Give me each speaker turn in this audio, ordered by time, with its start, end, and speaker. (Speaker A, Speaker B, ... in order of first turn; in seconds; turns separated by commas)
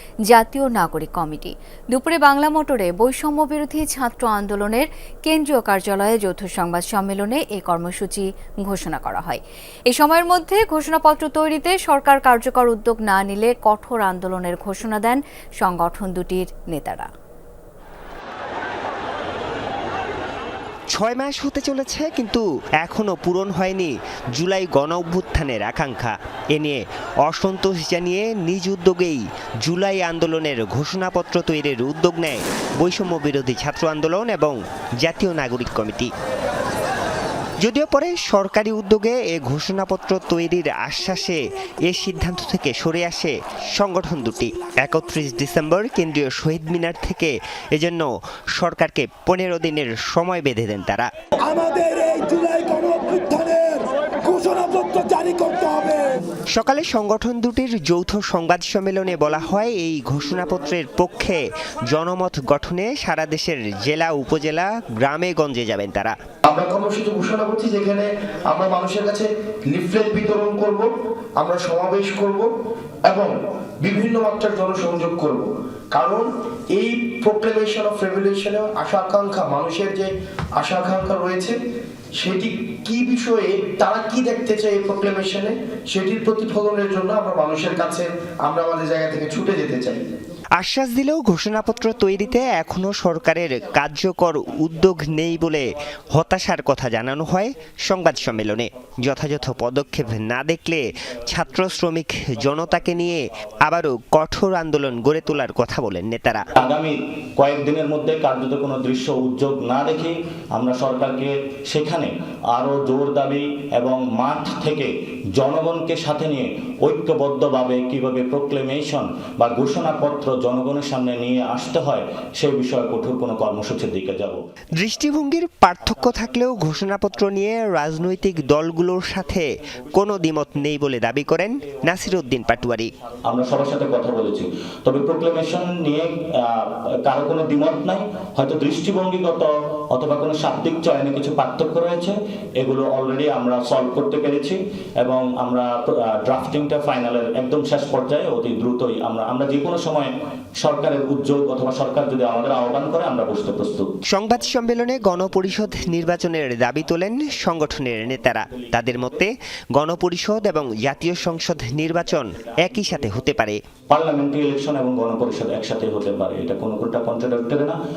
Speaker A: 0.3-17.1, Speaker B: 20.9-36.1, Speaker B: 37.6-51.1, Speaker C: 51.4-56.2, Speaker B: 56.5-66.1, Speaker D: 66.4-72.5, Speaker D: 73.0-81.5, Speaker D: 82.2-90.0, Speaker B: 90.6-106.4, Speaker E: 106.6-124.4, Speaker B: 124.8-132.9, Speaker E: 126.0-126.9, Speaker E: 133.3-153.9, Speaker B: 154.1-163.6, Speaker E: 158.5-159.1, Speaker E: 160.7-162.2, Speaker E: 163.9-167.8